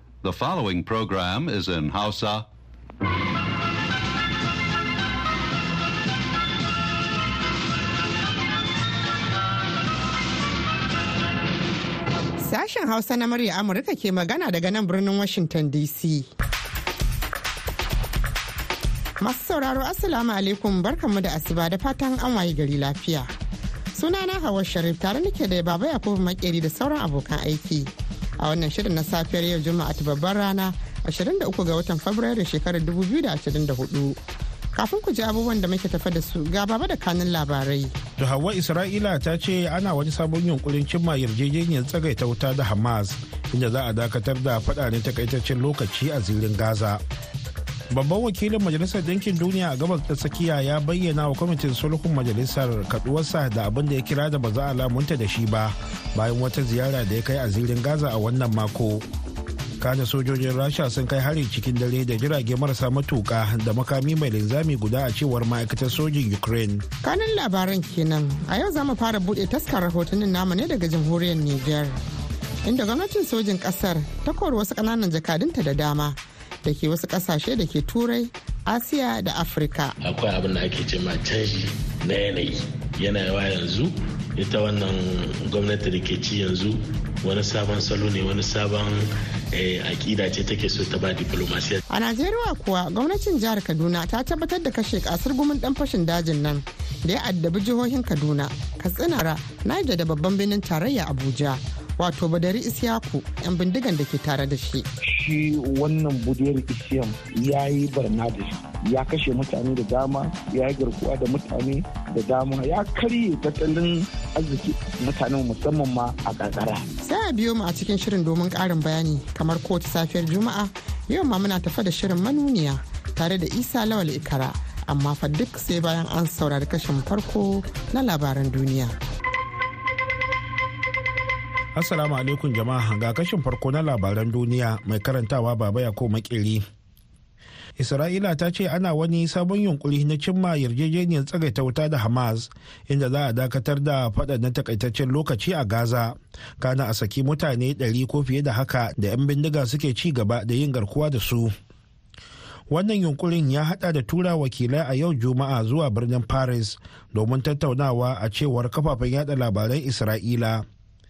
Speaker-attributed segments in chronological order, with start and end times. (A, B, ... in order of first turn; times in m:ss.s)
0:00.2-0:02.5 A
0:12.4-0:16.3 B
0:19.2-0:23.3 B
0:23.9-0:34.2 B
0:34.7-0:37.9 B
0:38.2-0:47.0 C
0:47.9-0:59.0 C
0:59.8-1:06.8 C
1:07.0-1:12.0 B
1:12.6-1:19.9 B
1:20.0-1:31.8 D
1:31.9-1:44.9 B
1:45.0-1:56.9 E
1:57.0-2:08.9 B
2:11.7-2:16.6 C
2:17.8-2:31.5 C
2:32.7-2:40.6 C